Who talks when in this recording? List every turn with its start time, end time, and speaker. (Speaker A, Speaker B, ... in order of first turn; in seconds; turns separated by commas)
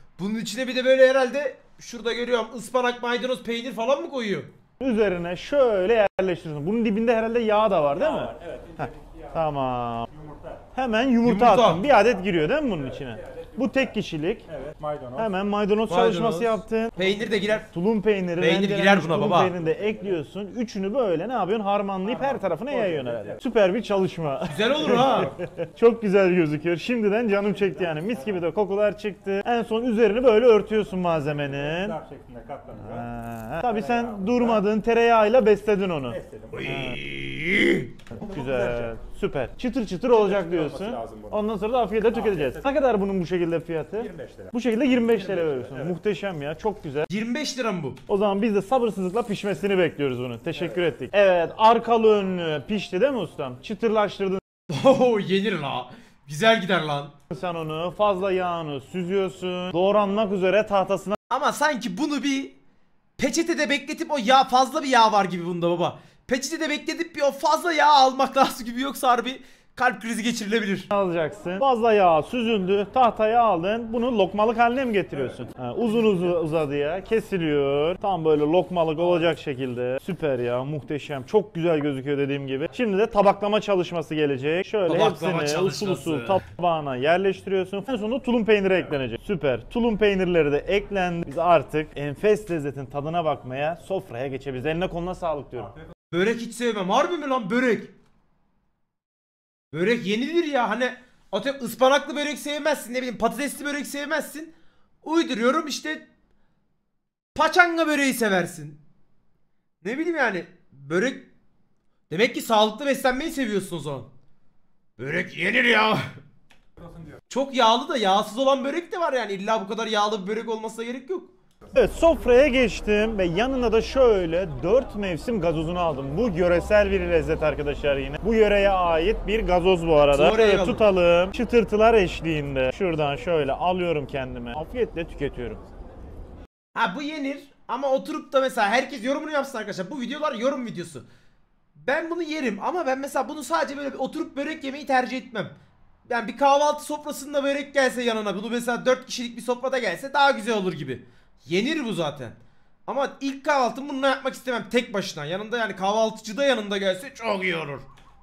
Speaker A: 0.2-4.5, Speaker B: 4.8-10.1, Speaker C: 7.9-9.4, Speaker C: 10.1-10.6, Speaker B: 10.7-14.5, Speaker A: 11.2-11.8, Speaker C: 12.9-13.8, Speaker C: 14.5-15.3, Speaker B: 15.2-32.0, Speaker A: 15.9-17.7, Speaker A: 18.4-19.5, Speaker C: 19.6-20.1, Speaker C: 22.0-23.4, Speaker A: 24.5-25.3, Speaker C: 24.8-25.4, Speaker C: 27.6-28.3, Speaker C: 31.4-33.1, Speaker B: 32.8-37.0, Speaker C: 33.6-34.6, Speaker C: 36.1-36.8, Speaker A: 36.5-37.9, Speaker B: 38.1-47.1, Speaker C: 38.1-39.0, Speaker C: 40.1-41.4, Speaker C: 42.0-42.7, Speaker C: 44.0-45.9, Speaker A: 47.1-48.0, Speaker B: 48.1-54.4, Speaker A: 54.7-57.1, Speaker B: 57.3-61.2, Speaker A: 61.3-62.6, Speaker A: 63.2-70.9, Speaker B: 70.9-95.7, Speaker A: 84.9-86.4, Speaker A: 96.1-97.9, Speaker A: 99.7-106.0, Speaker A: 107.3-108.8, Speaker A: 109.8-111.3, Speaker A: 112.1-114.1, Speaker A: 115.0-116.1, Speaker A: 117.3-121.3, Speaker B: 121.7-135.6, Speaker A: 130.1-130.8, Speaker A: 136.7-141.1, Speaker A: 141.8-145.5, Speaker A: 146.1-157.8